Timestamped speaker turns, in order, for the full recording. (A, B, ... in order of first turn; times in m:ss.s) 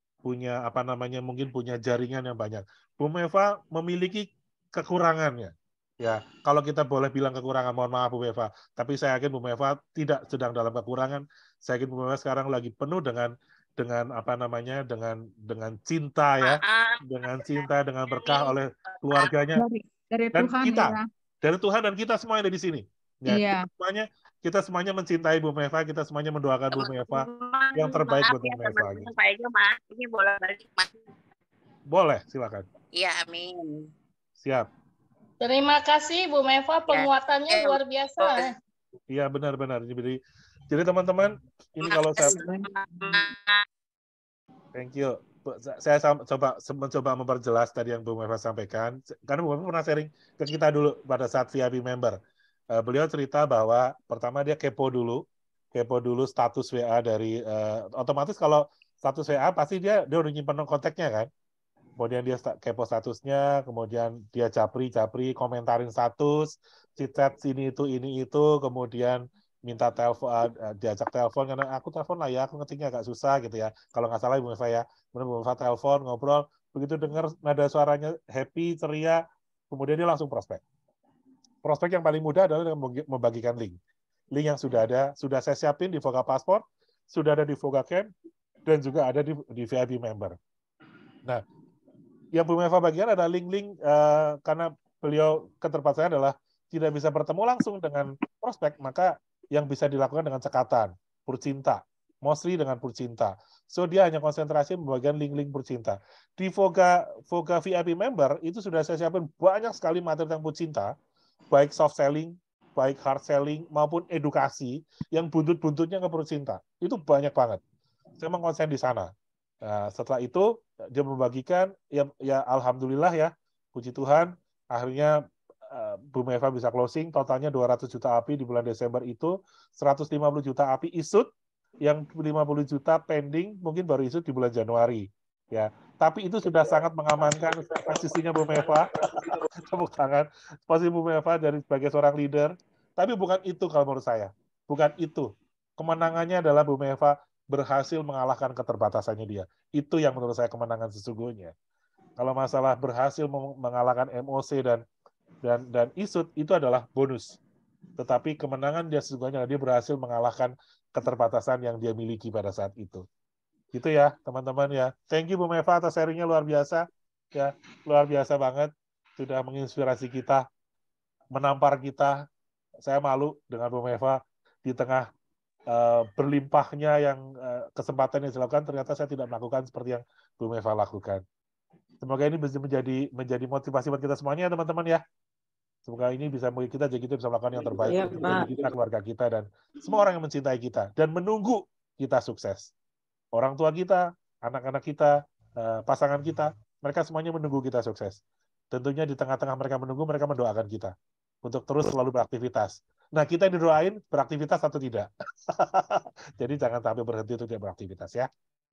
0:00.2-0:19.6 A
0:16.4-0:19.3 B
0:19.6-0:21.1 C
0:20.3-0:29.1 A
0:23.3-0:23.7 C
0:26.7-0:31.0 B
0:31.9-0:32.7 A
0:32.9-0:33.7 B
0:34.4-0:34.7 A
0:35.4-0:38.4 D
0:36.9-0:38.5 B
0:39.1-0:40.2 A
0:40.7-0:42.4 A
0:41.8-0:43.6 B
0:44.7-0:52.2 A
0:52.7-0:55.2 A
0:55.7-1:01.3 A
1:02.0-1:20.6 A
1:21.6-1:23.8 A
1:24.3-1:28.1 A
1:28.7-1:30.4 A
1:32.3-1:50.9 A
1:51.5-1:57.6 A
1:58.2-1:59.1 A
1:59.6-2:05.1 A
2:05.7-2:11.3 A
2:11.8-2:18.9 A
2:19.6-2:31.5 A
2:32.2-2:34.8 A
2:35.4-2:37.4 A
2:38.0-2:43.0 A
2:43.7-2:50.4 A
2:51.3-2:52.2 A
2:52.8-2:55.1 A
2:55.7-3:01.2 A
3:02.0-3:05.0 A
3:05.9-3:12.7 A
3:07.9-3:08.5 D
3:13.3-3:20.9 A
3:21.4-3:28.3 A